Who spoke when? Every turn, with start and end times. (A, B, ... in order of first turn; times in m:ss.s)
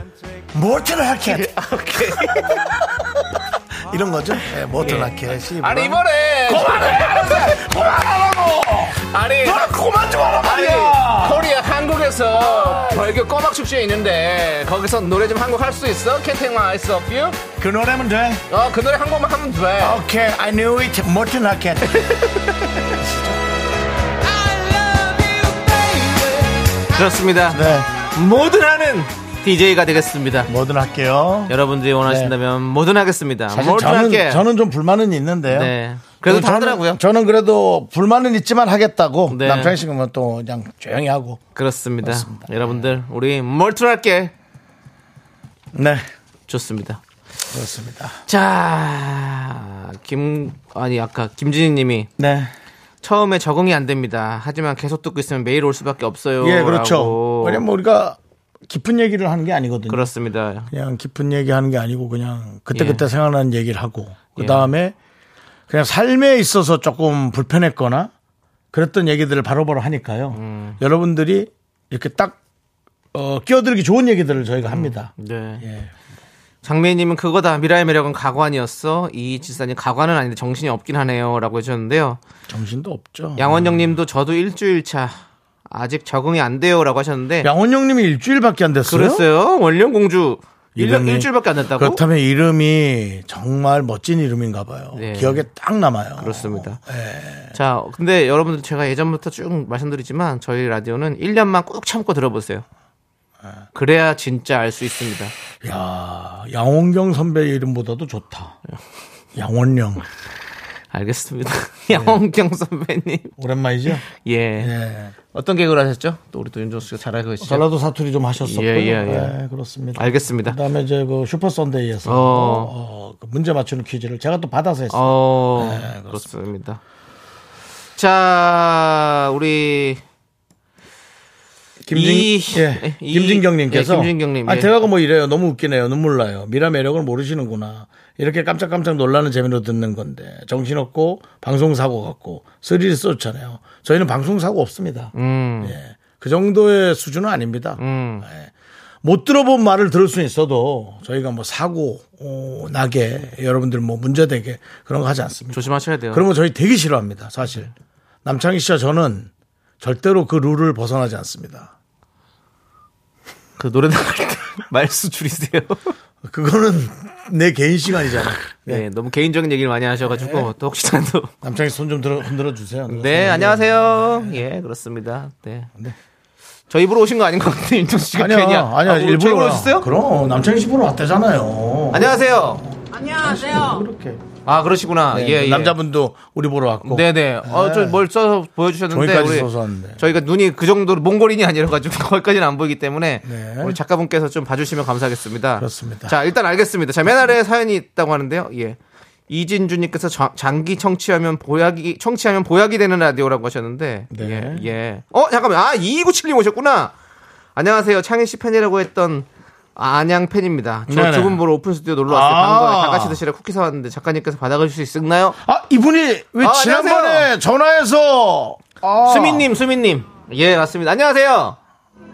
0:00.5-0:11.6 A
0:01.2-0:02.7 B
0:04.8-0:07.7 B
0:09.0-0:09.8 B
0:10.4-0:17.4 B
0:12.4-0:13.0 A
0:17.6-0:18.4 A
0:18.5-0:20.0 B
0:19.8-0:22.0 A
0:21.9-0:22.6 B
0:23.0-0:23.4 A
0:24.4-0:30.5 B
0:27.5-0:27.9 A
0:30.5-0:31.5 A
0:31.5-0:34.4 B
0:32.0-0:32.3 A
0:33.5-0:35.7 A
0:35.5-0:37.0 B
0:36.2-0:41.4 A
0:39.3-0:39.8 B
0:41.6-0:44.3 B
0:42.0-0:42.7 A
0:45.7-0:46.1 A
0:46.5-0:47.0 B
0:47.5-0:48.2 A
0:48.3-0:52.1 B
0:52.2-0:52.5 A
0:53.0-0:57.6 B
0:56.4-1:00.1 A
0:59.9-1:00.7 B
1:00.7-1:05.0 A
1:02.7-1:03.0 B
1:04.4-1:04.7 B
1:05.7-1:08.1 A
1:08.7-1:12.4 A
1:10.3-1:10.8 B
1:13.1-1:15.9 A
1:14.6-1:15.6 B
1:16.6-1:22.2 B
1:22.5-1:23.9 A
1:23.4-1:27.5 B
1:27.4-1:29.3 A
1:28.9-1:32.0 B
1:30.8-1:37.6 A
1:34.9-1:35.5 B
1:36.2-1:36.8 B
1:37.5-1:42.6 B
1:43.7-1:45.3 B
1:45.6-1:48.6 A
1:49.4-1:50.0 A
1:50.9-1:53.4 B
1:51.9-1:52.2 A
1:53.4-1:54.0 A
1:54.1-1:54.7 B
1:54.6-1:55.1 A
1:55.3-1:57.6 B
1:57.4-2:06.3 A
1:58.4-1:59.4 B
2:00.0-2:00.6 B
2:02.0-2:02.7 B
2:04.9-2:06.8 B
2:08.0-2:10.0 B
2:11.8-2:28.5 A
2:11.9-2:14.7 B
2:25.2-2:25.8 B
2:27.8-2:28.3 B
2:29.0-2:37.7 A
2:35.5-2:36.3 B
2:38.2-2:39.3 A
2:39.8-2:41.7 A
2:43.6-2:45.9 B
2:46.2-2:48.8 A
2:48.7-2:51.3 B
2:50.1-2:50.5 A
2:51.4-2:54.4 A
2:52.9-2:55.7 B
2:56.7-2:59.9 B
2:58.1-3:04.2 A
3:01.9-3:02.6 B
3:04.4-3:05.8 B
3:05.1-3:08.0 A
3:06.8-3:18.8 B
3:08.9-3:10.0 A
3:13.2-3:13.8 A
3:15.6-3:16.2 A
3:19.3-3:26.9 B
3:24.1-3:24.7 A
3:27.6-3:35.4 B
3:30.9-3:31.4 A
3:32.1-3:33.2 A
3:35.4-3:39.5 A
3:36.4-3:37.3 B
3:39.0-3:41.6 B